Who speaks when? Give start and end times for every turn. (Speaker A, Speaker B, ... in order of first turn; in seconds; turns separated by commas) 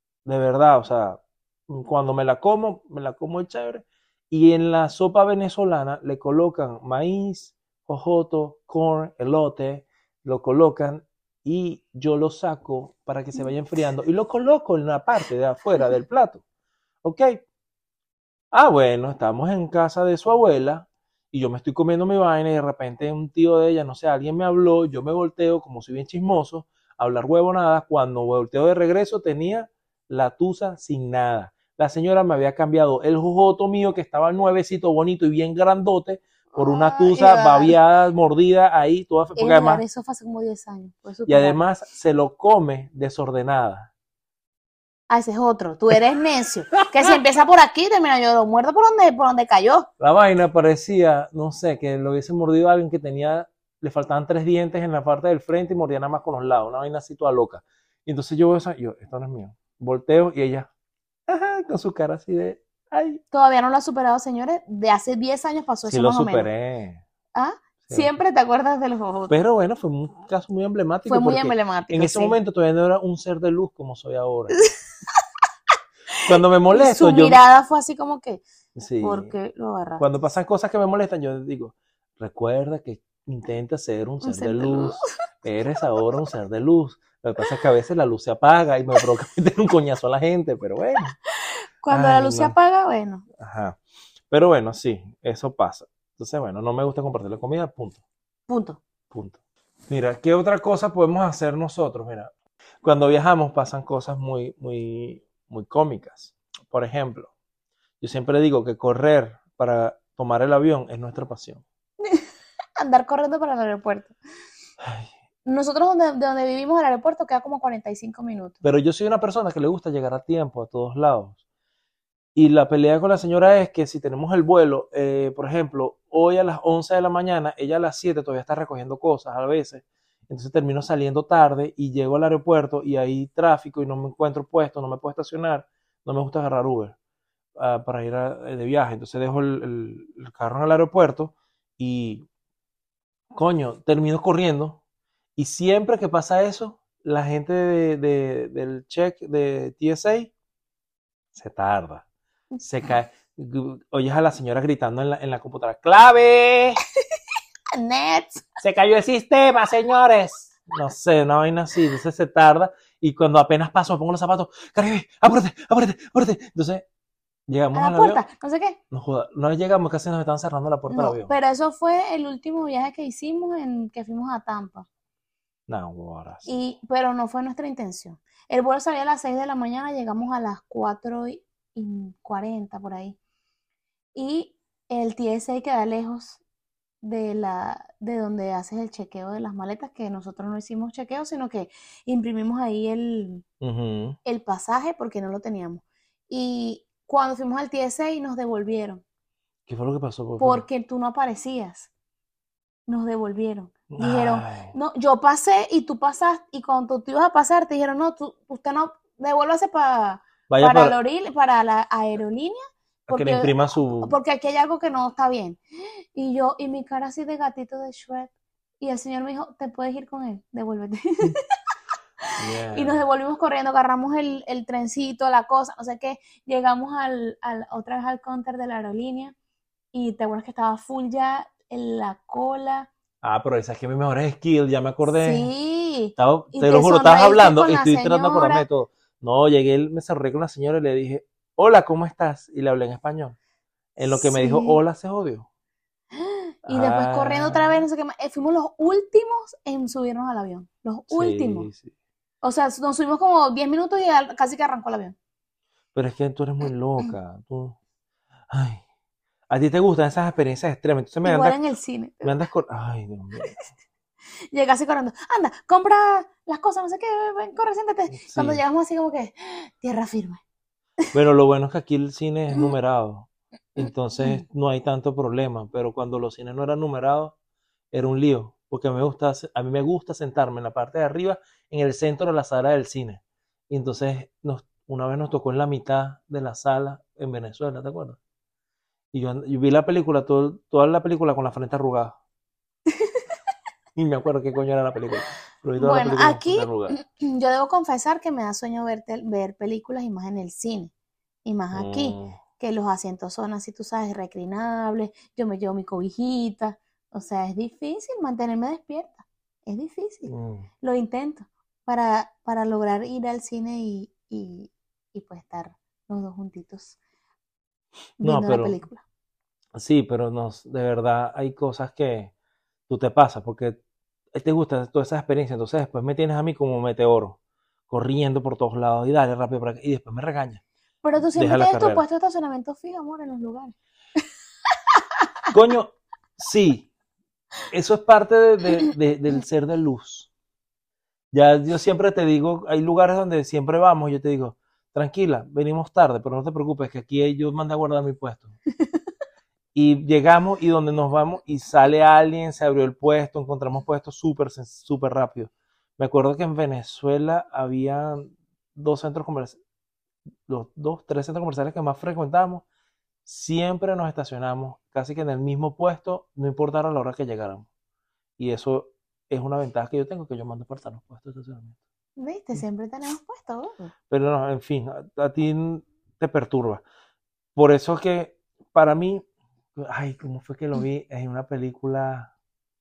Speaker A: 0.2-16.4, Speaker A: 17.0-17.4, Speaker A: 18.5-39.8, Speaker B: 36.5-37.8, Speaker B: 39.4-41.6, Speaker A: 41.3-43.9, Speaker B: 45.1-49.9, Speaker A: 50.0-60.7, Speaker A: 61.3-63.2, Speaker B: 63.3-66.5, Speaker A: 65.8-67.0, Speaker B: 67.3-69.4, Speaker A: 67.8-68.1, Speaker A: 69.3-74.6, Speaker B: 71.1-72.4, Speaker A: 76.2-77.4, Speaker B: 76.7-78.4, Speaker A: 78.8-79.3, Speaker B: 79.0-80.1, Speaker A: 80.0-91.1, Speaker B: 84.2-85.0, Speaker B: 91.5-93.2, Speaker A: 91.9-92.5, Speaker A: 93.4-93.8, Speaker A: 94.3-98.0, Speaker B: 98.5-98.8, Speaker A: 99.1-102.3, Speaker A: 102.8-107.3, Speaker A: 108.0-111.6, Speaker B: 112.8-114.2, Speaker A: 114.8-115.1, Speaker B: 115.4-118.6, Speaker A: 118.6-121.4, Speaker A: 122.3-136.9, Speaker A: 137.6-142.2, Speaker A: 143.3-144.8, Speaker A: 145.4-150.3, Speaker A: 151.3-152.0, Speaker A: 152.6-156.8, Speaker B: 157.8-158.6, Speaker A: 158.6-166.8, Speaker A: 167.5-168.2, Speaker B: 167.7-168.8, Speaker A: 168.9-171.3, Speaker B: 170.9-174.8, Speaker A: 175.7-176.6, Speaker B: 176.4-183.2, Speaker B: 184.1-186.4, Speaker B: 187.0-193.4, Speaker A: 193.6-194.2, Speaker B: 194.2-199.0, Speaker A: 199.7-200.6, Speaker B: 200.4-201.9, Speaker B: 202.9-215.6, Speaker A: 203.9-204.7, Speaker A: 210.5-210.9, Speaker A: 213.1-214.2, Speaker B: 216.1-221.3, Speaker A: 222.4-223.0, Speaker B: 222.7-229.3, Speaker B: 229.9-232.9, Speaker A: 233.2-235.5, Speaker B: 235.2-238.7, Speaker A: 236.2-243.3, Speaker A: 243.9-245.5, Speaker B: 244.0-244.8, Speaker B: 246.1-251.7, Speaker A: 246.7-247.8, Speaker A: 251.1-251.9, Speaker B: 252.4-255.1, Speaker A: 255.9-257.8, Speaker A: 258.5-258.8, Speaker A: 259.5-261.6, Speaker B: 261.2-262.4, Speaker A: 262.2-263.5, Speaker B: 264.5-270.4, Speaker A: 268.1-268.6, Speaker A: 271.1-277.3, Speaker A: 277.9-288.2, Speaker A: 289.1-292.1, Speaker A: 293.9-296.9, Speaker B: 295.8-300.9, Speaker B: 301.4-317.0, Speaker A: 301.7-302.4, Speaker A: 310.3-310.7, Speaker B: 318.2-319.0, Speaker A: 318.2-318.8, Speaker A: 319.7-322.3, Speaker A: 322.9-323.8, Speaker A: 324.3-327.4, Speaker A: 327.9-330.6, Speaker B: 331.0-333.7, Speaker A: 331.2-332.0, Speaker A: 335.5-336.9, Speaker A: 337.7-340.3, Speaker A: 341.3-348.5, Speaker A: 349.7-359.6, Speaker A: 360.5-362.6, Speaker A: 363.2-367.6, Speaker A: 368.4-371.8, Speaker B: 372.2-373.9, Speaker A: 374.1-376.8, Speaker A: 377.6-379.2, Speaker A: 379.8-382.3